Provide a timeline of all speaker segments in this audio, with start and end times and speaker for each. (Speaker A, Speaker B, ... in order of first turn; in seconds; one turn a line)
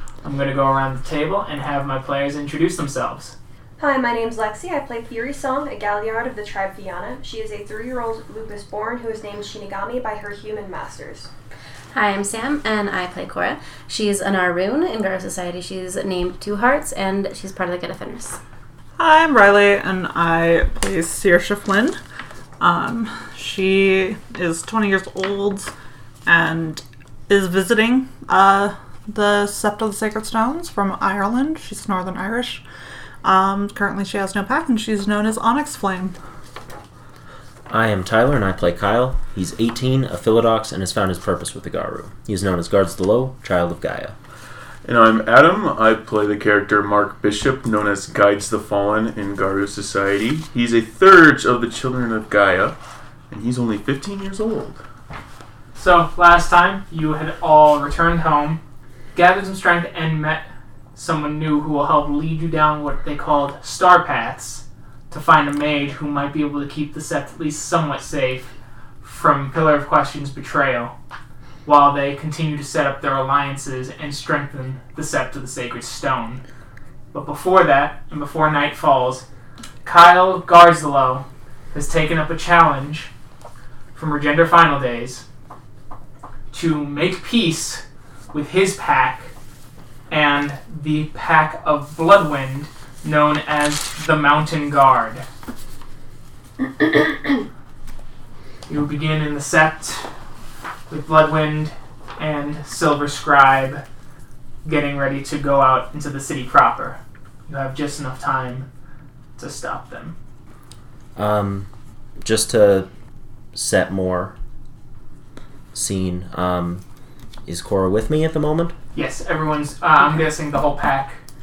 Speaker A: 0.2-3.3
Speaker B: 3.8-11.3
Speaker C: 11.9-18.4
Speaker D: 19.0-22.0
Speaker D: 22.6-25.7
Speaker D: 26.2-32.6
Speaker D: 33.2-36.1
Speaker E: 37.7-44.1
Speaker F: 44.8-52.8
Speaker F: 53.3-54.8
Speaker A: 55.7-58.6
Speaker A: 59.1-70.9
Speaker A: 71.6-76.4
Speaker A: 77.1-79.2
Speaker A: 79.8-83.1
Speaker A: 83.9-85.2
Speaker A: 86.5-89.3
Speaker A: 90.1-95.2
Speaker A: 98.7-100.1
Speaker A: 100.9-103.8
Speaker A: 104.6-108.7
Speaker A: 109.4-110.1
Speaker E: 111.2-111.7
Speaker E: 112.2-112.9
Speaker E: 113.5-114.3
Speaker E: 115.7-116.8
Speaker E: 117.5-118.7
Speaker A: 118.9-121.2